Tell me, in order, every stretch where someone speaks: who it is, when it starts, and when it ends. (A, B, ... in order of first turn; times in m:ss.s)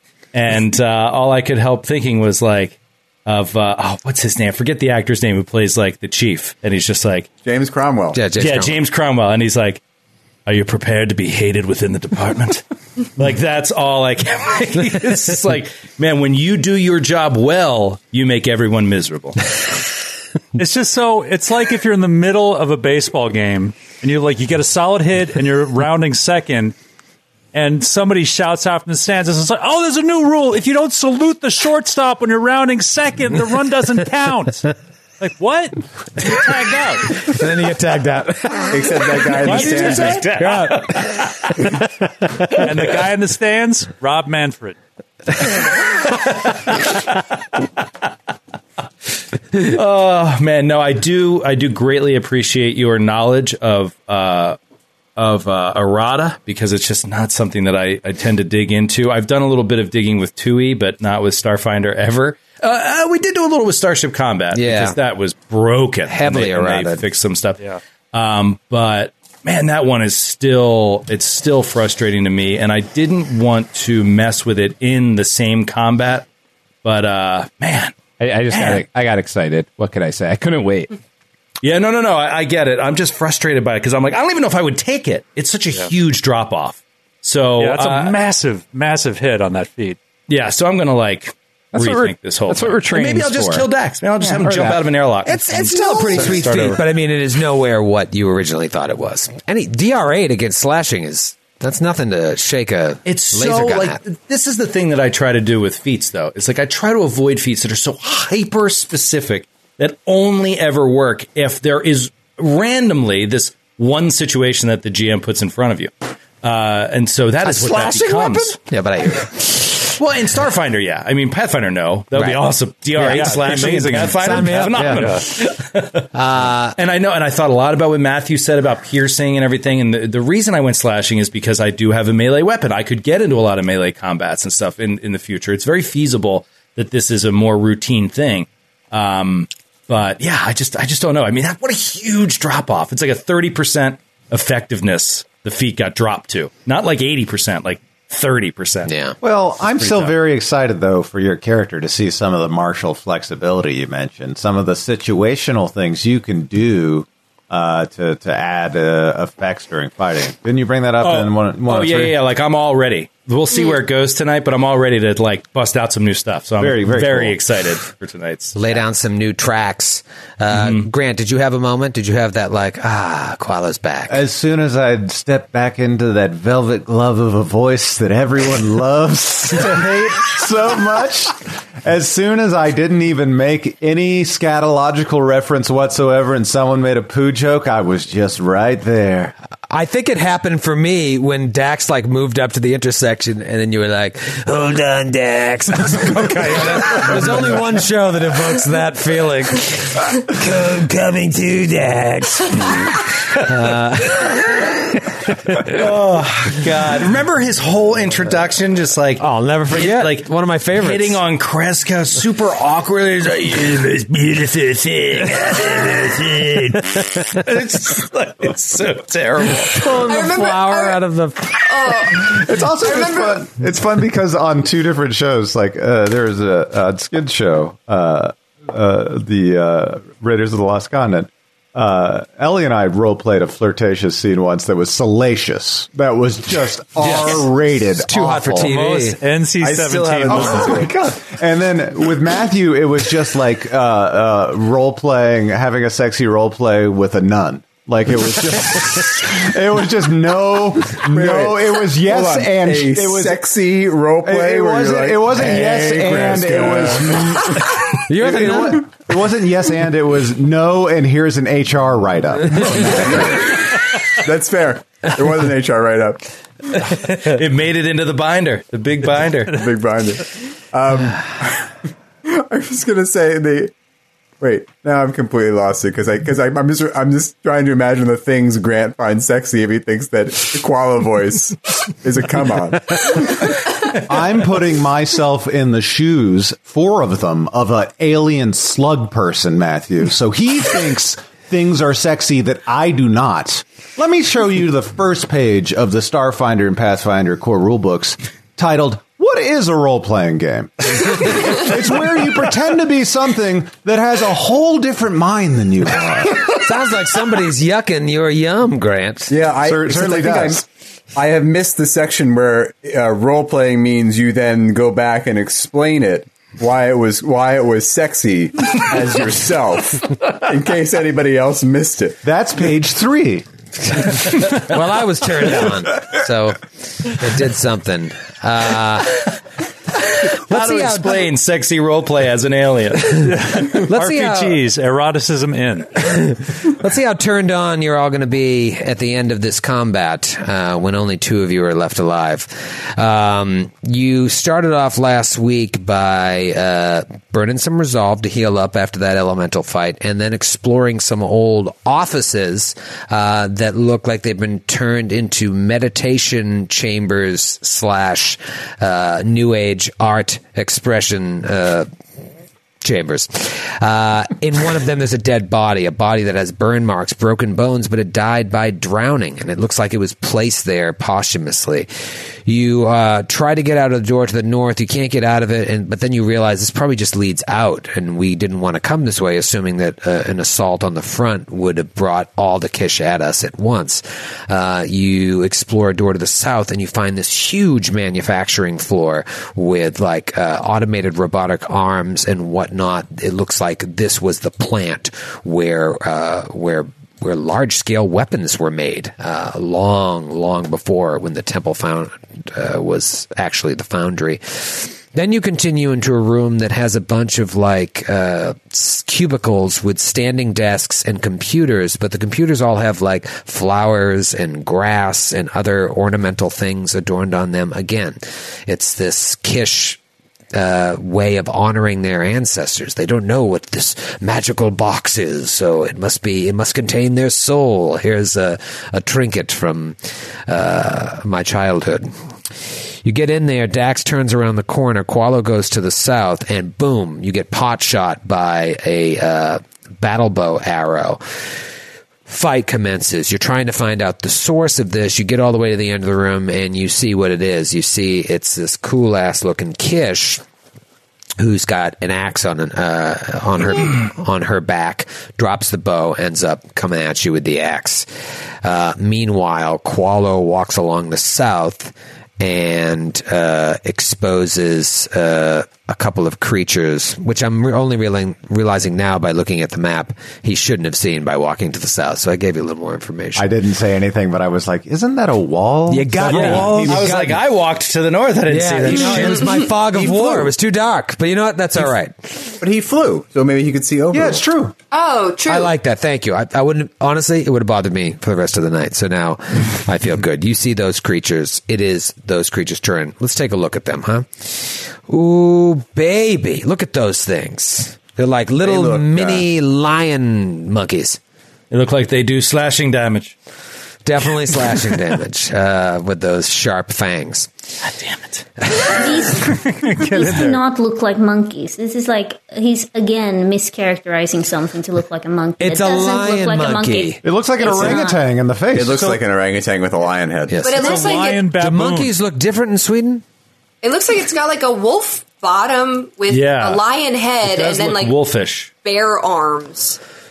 0:00.3-0:07.3 A
0:07.4-0:08.2 B
0:08.1-0:08.8 C
0:08.4-0:09.8 A
0:10.4-0:12.6 A
0:13.2-0:19.4 A
0:20.6-0:26.7 D
0:27.5-0:37.2 D
0:37.2-0:41.2 C
0:38.7-0:40.2 B
0:39.4-0:40.5 D
0:39.5-0:41.5 A
0:42.5-0:44.8 D
0:49.5-0:54.6 A
0:55.2-1:07.6 A
1:04.5-1:05.0 C
1:06.1-1:07.0 C
1:08.1-1:16.2 A
1:16.8-1:18.0 A
1:18.2-1:20.9 E
1:18.5-1:18.8 A
1:21.6-1:28.2 A
1:27.6-1:30.0 D
1:30.3-1:36.8 A
1:31.7-1:33.7 E
1:34.2-1:34.8 E
1:35.2-1:44.0 C
1:43.0-1:58.6 A
1:57.4-2:00.0 C
2:00.0-2:06.1 A
2:02.1-2:02.4 C
2:03.0-2:05.2 D
2:04.2-2:05.0 C
2:06.1-2:06.8 C
2:06.7-2:28.9 A
2:28.8-2:29.2 C
2:29.2-2:42.2 F
2:29.8-2:30.1 A
2:41.0-2:48.6 A
2:46.6-2:47.4 F
2:48.5-2:54.2 C
2:50.5-2:50.9 A
2:54.1-3:09.3 F
3:09.7-3:25.7 C
3:25.6-3:39.9 A
3:29.2-3:31.2 C
3:39.6-3:41.9 C
3:40.0-3:41.0 G
3:41.6-3:43.4 G
3:42.2-3:58.7 F
3:58.0-3:59.2 C
3:58.6-4:00.9 D
3:59.6-4:01.2 B
4:00.3-4:13.4 F
4:11.0-4:17.6 B
4:14.2-4:23.4 F
4:18.1-4:18.8 C
4:23.0-4:26.2 B
4:27.1-4:29.6 A
4:29.5-4:33.7 B
4:34.4-4:43.6 B
4:43.9-5:06.5 F
5:06.5-5:09.3 C
5:09.3-5:22.2 B
5:09.6-5:10.6 F
5:22.2-5:23.4 F
5:23.9-5:29.2 C
5:30.3-5:31.3 C
5:30.5-5:33.3 A
5:33.2-5:35.9 D
5:33.9-5:34.6 C
5:36.0-6:01.9 C
6:02.8-6:11.9 C
6:12.4-7:00.0 C
7:00.5-7:12.1 C
7:13.0-7:21.2 C
7:22.2-7:30.4 C
7:31.4-7:38.1 C
7:38.6-7:53.5 C
7:53.4-7:57.3 F
7:55.9-7:57.4 C
7:56.3-8:00.1 A
7:58.5-8:02.3 C
8:02.5-8:04.4 B
8:04.1-8:04.7 F
8:04.9-8:05.7 G
8:05.4-8:21.2 C
8:18.6-8:19.4 B
8:21.7-8:23.3 A
8:24.0-8:27.5 C
8:27.8-8:28.4 A
8:28.9-8:38.2 H
8:29.5-8:30.6 D
8:35.6-8:37.2 C
8:37.2-8:39.2 F
8:38.7-8:40.7 B
8:40.5-8:41.0 C
8:40.6-8:41.5 G
8:40.7-8:42.1 D
8:41.5-8:43.2 C
8:43.8-8:48.2 G
8:46.3-8:46.8 A
8:47.4-8:48.7 A
8:48.8-8:50.0 G